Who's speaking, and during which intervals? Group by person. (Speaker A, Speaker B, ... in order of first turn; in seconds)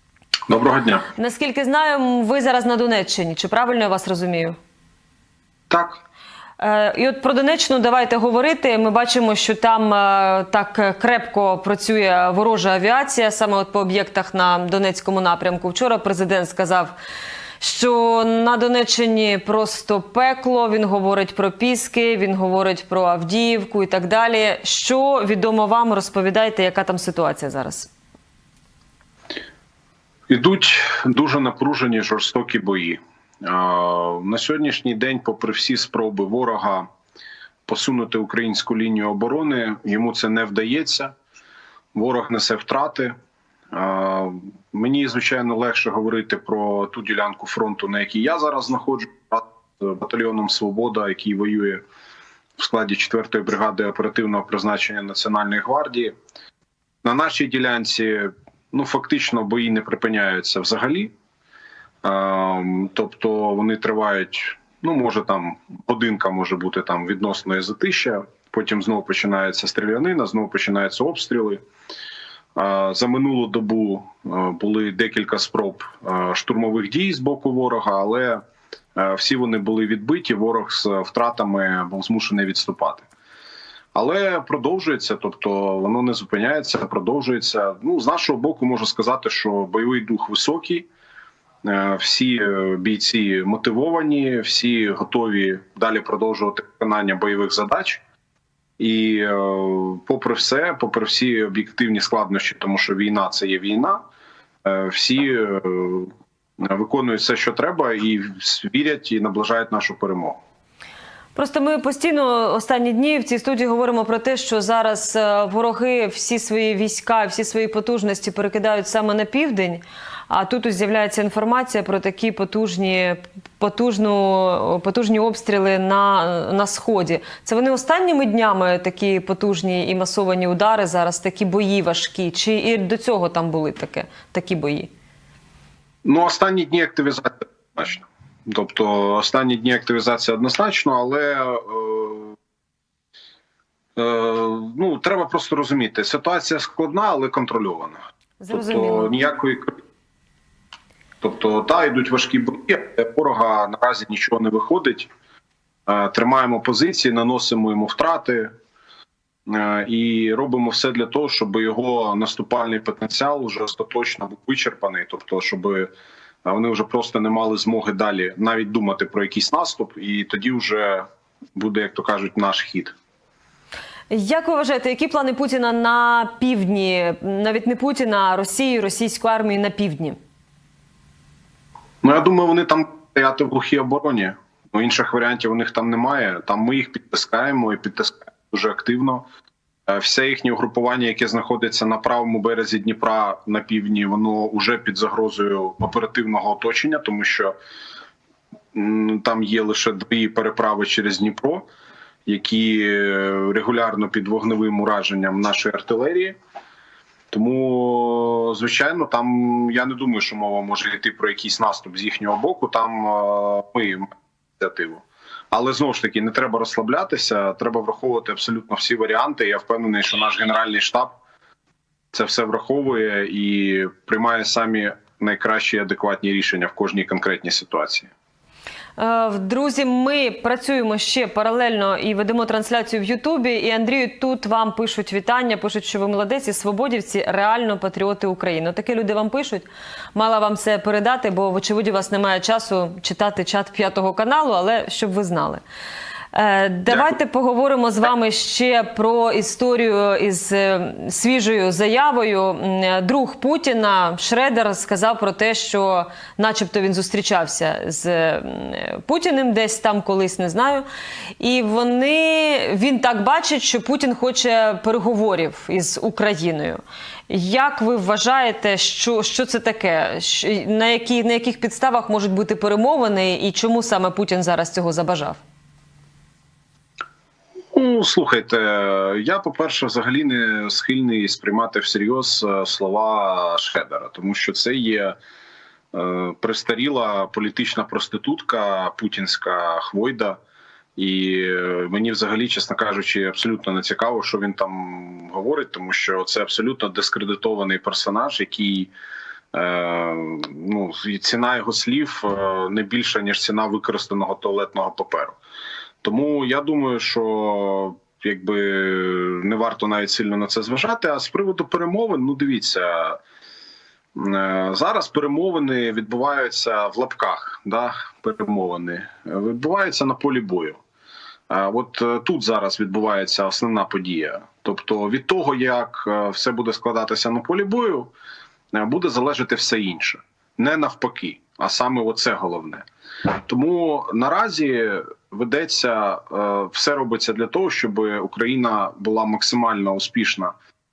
Speaker A: 0.5-1.1, 5.7-6.0, 30.3-36.9, 37.7-41.1, 41.9-43.1, 43.7-51.8, 52.6-56.1, 57.0-61.1, 62.0-71.6, 72.5-78.4, 79.0-83.0, 83.9-90.9, 91.6-98.0, 98.8-104.0, 104.6-110.4, 136.0-142.3, 143.9-148.0, 148.5-149.7, 151.2-155.1, 155.9-158.5, 159.4-165.9, 166.4-172.9, 182.0-189.2, 189.9-197.5, 198.7-201.7, 202.2-206.3, 207.3-221.1, 222.1-228.1, 246.9-247.1, 277.7-285.1, 285.9-290.4, 290.9-298.9, 299.5-305.4, 306.0-313.2, 314.1-320.8, 321.5-328.1, 328.7-340.5
Speaker B: 1.1-4.5, 6.6-16.9, 17.6-27.9, 111.3-134.9, 148.4-149.1, 174.1-180.2, 229.0-245.6, 246.3-260.9, 261.4-275.4